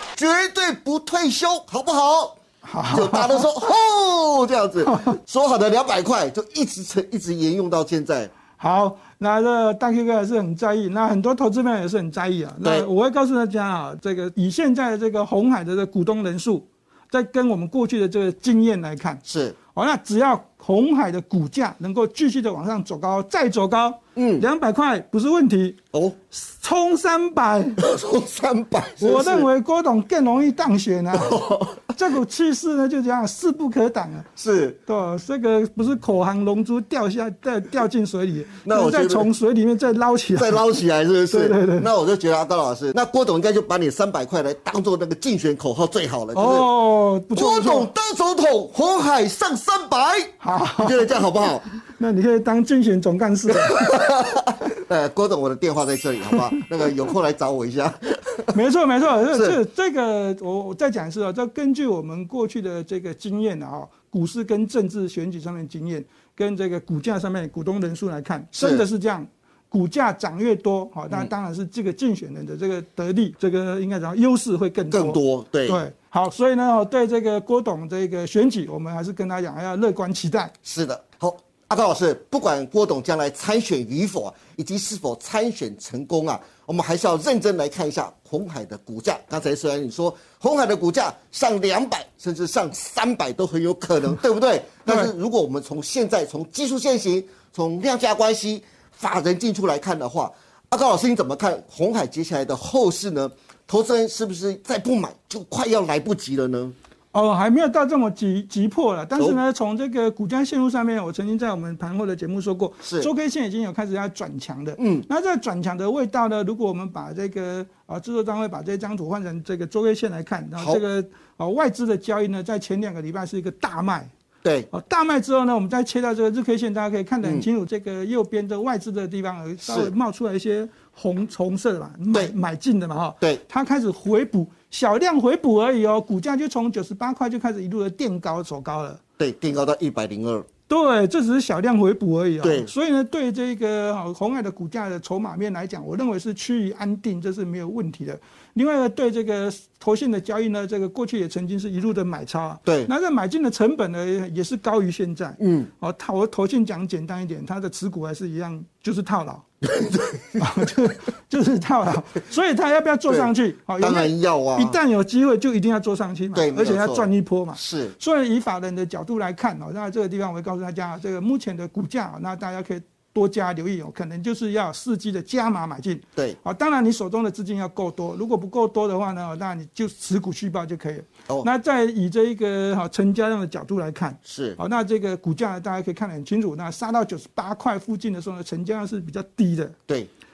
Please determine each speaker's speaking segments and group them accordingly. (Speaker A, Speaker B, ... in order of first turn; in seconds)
Speaker A: 0.2-8.3, 12.6-12.9, 19.3-19.6, 24.2-24.5, 27.8-29.5, 31.1-31.9, 34.4-34.8, 38.6-39.3, 40.4-46.7, 47.3-51.6, 53.5-58.5, 59.3-59.6, 68.6-68.8, 74.9-75.8, 80.6-106.8, 112.8-113.1, 114.8-115.1, 120.6-120.8, 124.4-124.7, 129.6-129.9, 139.2-140.5, 142.4-142.7, 155.4-155.7, 159.6-160.9, 163.1-164.8, 166.3-168.0, 184.3-184.6
Speaker B: 2.6-3.5, 8.6-19.2, 19.8-25.8, 26.3-27.8, 29.0-31.4, 31.9-34.3, 34.9-40.6, 41.3-41.9, 46.3-47.9, 50.4-51.1, 51.7-54.0, 58.5-80.5, 107.1-124.1, 124.7-139.0, 140.7-159.4, 160.4-189.8